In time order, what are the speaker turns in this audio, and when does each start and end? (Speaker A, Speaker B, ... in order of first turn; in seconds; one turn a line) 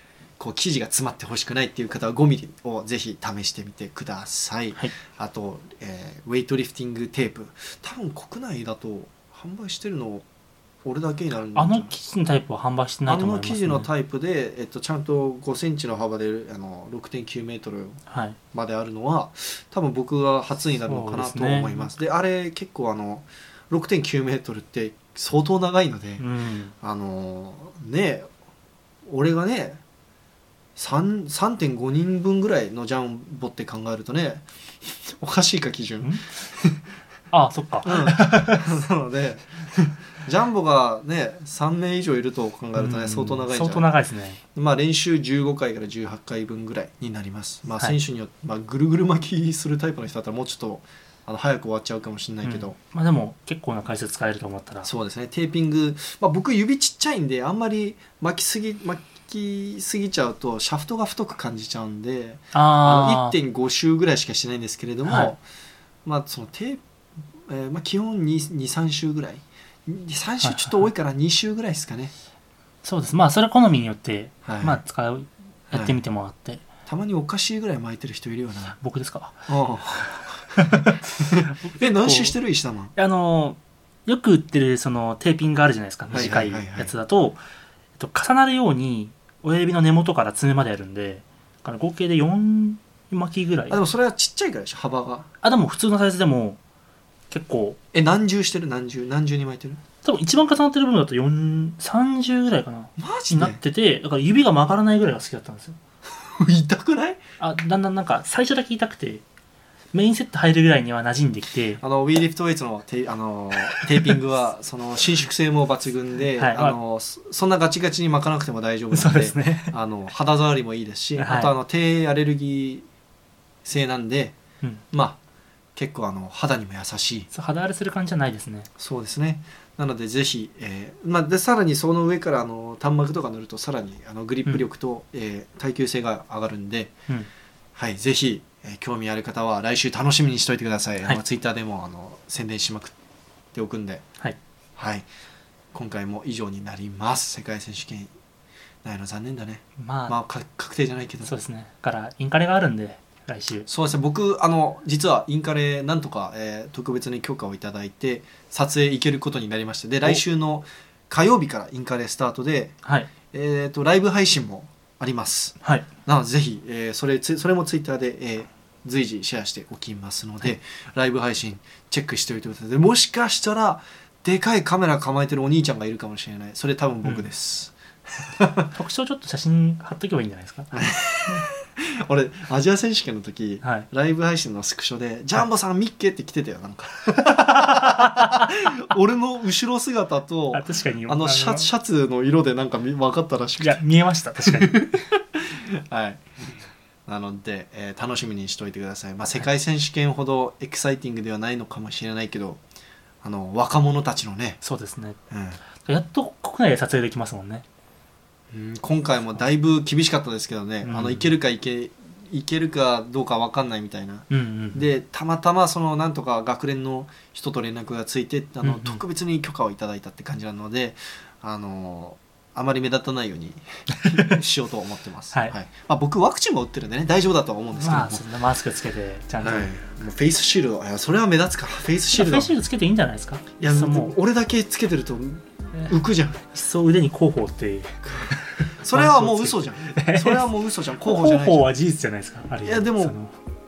Speaker A: 0.4-10.2
Speaker A: 10.8-11.9
Speaker B: 11.6-13.9
Speaker A: 13.1-18.0
Speaker B: 18.1-18.4
Speaker A: 18.5-26.2
Speaker B: 20.9-21.9
Speaker B: 26.2-26.7
Speaker A: 26.8-28.3
Speaker A: 29.1-29.8
Speaker A: 30.8-34.5
Speaker A: 35.0-36.8
Speaker B: 36.0-36.3
Speaker B: 37.3-38.6
Speaker A: 37.9-43.9
Speaker B: 42.8-44.4
Speaker A: 44.5-52.8
Speaker B: 52.4-54.9
Speaker A: 54.8-65.4
Speaker B: 62.5-63.4
Speaker B: 65.1-65.3
Speaker A: 66.0-66.8
Speaker A: 67.5-72.1
Speaker B: 70.4-70.9
Speaker B: 72.8-76.7
Speaker A: 74.5-74.8
Speaker A: 75.7-76.0
Speaker A: 76.9-78.8
Speaker B: 78.7-79.5
Speaker A: 79.5-83.0
Speaker B: 80.1-82.4
Speaker B: 83.0-87.4
Speaker A: 86.1-86.9
Speaker B: 88.0-93.8
Speaker A: 93.7-95.3
Speaker B: 95.4-96.6
Speaker B: 97.3-97.8
Speaker A: 97.9-99.8
Speaker B: 100.0-105.8
Speaker A: 103.0-103.6
Speaker A: 106.3-107.2
Speaker B: 107.4-109.2
Speaker B: 109.9-111.8
Speaker A: 111.8-122.8
Speaker B: 113.6-114.2
Speaker B: 116.4-116.8
Speaker B: 118.9-119.7
Speaker B: 121.2-121.5
Speaker A: 123.7-124.4
Speaker A: 124.9-125.2
Speaker A: 125.8-127.3
Speaker B: 127.3-128.7
Speaker A: 128.8-136.9
Speaker A: 137.8-142.9
Speaker A: 143.5-144.0
Speaker A: 144.8-145.1
Speaker A: 145.7-148.1
Speaker A: 148.8-151.3
Speaker B: 149.8-150.2
Speaker B: 151.2-153.7
Speaker A: 153.7-162.8
Speaker B: 162.8-163.1
Speaker A: 163.3-178.7
Speaker B: 178.8-180.7
Speaker A: 180.7-193.8
Speaker B: 183.6-183.9
Speaker B: 187.3-188.7
Speaker B: 190.5-191.7
Speaker B: 193.6-194.8
Speaker A: 194.4-196.3
Speaker A: 197.1-202.6
Speaker A: 203.2-204.6
Speaker B: 204.6-205.2
Speaker A: 205.3-205.6
Speaker B: 205.8-207.7
Speaker A: 208.5-228.2
Speaker B: 210.8-211.3
Speaker B: 214.3-214.9
Speaker B: 218.6-219.0
Speaker B: 224.1-224.3
Speaker B: 227.7-229.7
Speaker A: 229.4-232.5
Speaker B: 232.1-234.2
Speaker A: 233.6-236.4
Speaker B: 236.5-240.5
Speaker A: 238.1-241.7
Speaker B: 241.0-243.4
Speaker A: 242.7-243.2